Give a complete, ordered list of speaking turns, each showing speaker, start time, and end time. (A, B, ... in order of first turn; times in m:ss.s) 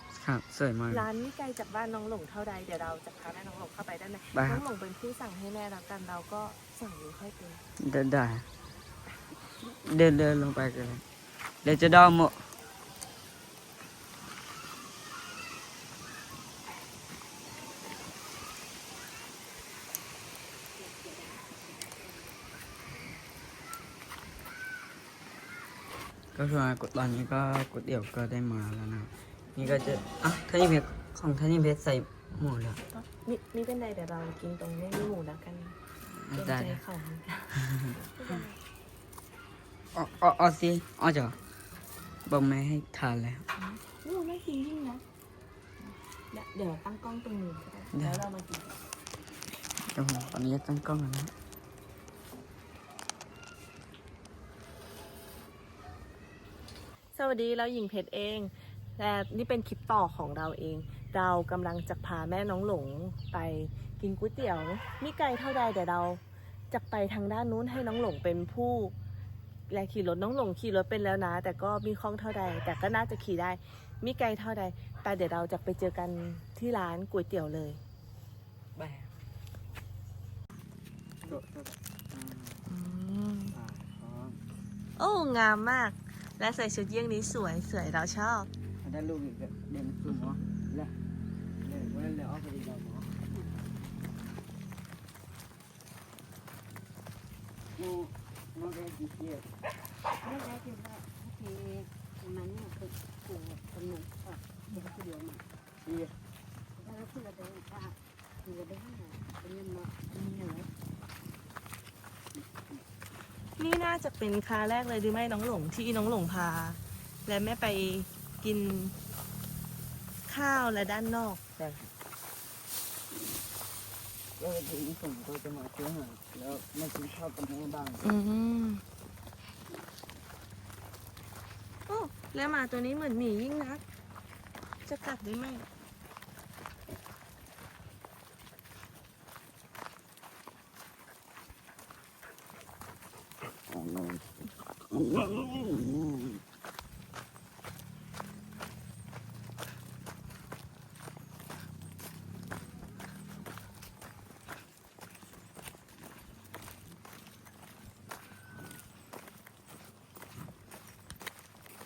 0:00.1-0:01.1 A
0:00.9-0:07.6 B
0:04.3-0:04.6 A
0:07.8-0:08.4 A
0:09.6-0:11.0 A
0:11.6-0:12.4 A
0:20.8-0:22.3 C
0:26.3-0:32.8 A
0:32.9-0:35.8 B
0:36.1-0:36.8 A
0:36.3-0:38.6 B
0:39.9-0:41.4 A
0:42.2-0:43.4 A
0:43.6-0:45.0 B
0:46.3-0:48.8 B
0:47.9-0:48.2 A
0:49.8-0:51.3 A
0:57.1-1:08.9 B
1:09.7-1:17.8 B
1:18.7-1:19.1 A
1:21.2-1:22.6 A
1:22.6-1:23.5 B
1:23.5-1:24.4 A
1:25.0-1:28.5 B
1:28.8-1:30.9 A
1:31.6-1:33.1 A
1:37.8-1:39.6 A
1:40.2-1:45.4 C
1:45.8-1:46.1 A
1:46.8-1:50.7 C
1:53.6-1:58.9 B
2:00.3-2:01.4 B
2:01.6-2:01.9 A
2:04.4-2:08.0 A
2:08.0-2:08.8 B
2:11.9-2:13.8 B
2:14.8-2:15.6 B
2:23.7-2:24.3 A
2:24.9-2:26.0 A